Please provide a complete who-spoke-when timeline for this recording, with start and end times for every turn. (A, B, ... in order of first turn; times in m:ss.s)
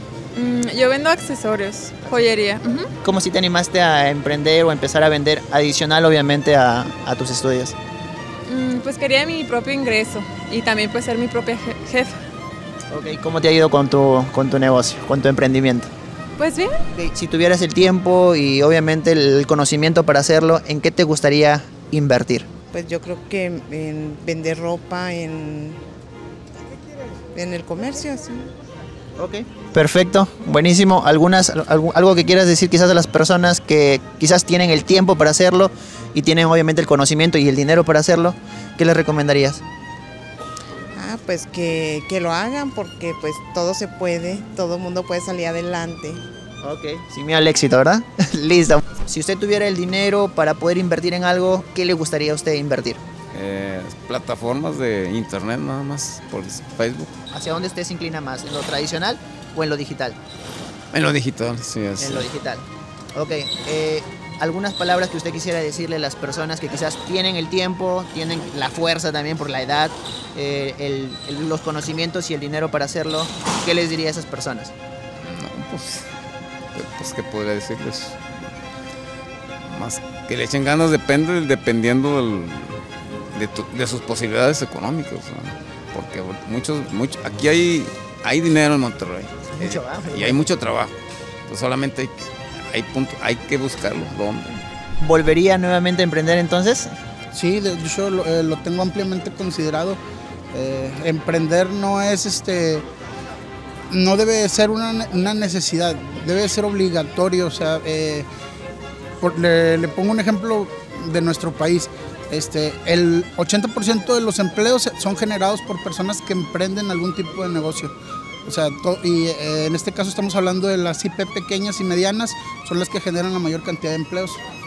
0:00.4-0:02.9 A
0:02.0-0:02.3 B
0:03.0-0:07.8 B
0:08.5-0:12.2 A
0:12.9-0:15.9 B
0:16.4-0:16.8 A
0:16.9-0:22.5 B
0:22.7-0:25.8 C
0:27.3-0:28.5 C
0:29.2-0:39.6 B
0:41.0-0:46.2 C
0:46.6-0:53.0 B
0:53.3-0:57.1 D
0:57.3-1:00.2 B
1:00.9-1:02.3 D
1:02.0-1:14.7 B
1:15.2-1:16.1 D
1:16.8-1:18.2 D
1:19.6-1:31.0 D
1:29.5-1:30.5 B
1:31.5-1:34.6 D
1:35.0-1:36.9 B
1:37.3-1:40.0 E
1:40.5-1:42.8 E
1:43.9-1:48.3 E
1:49.2-1:57.9 E
1:58.4-2:04.4 E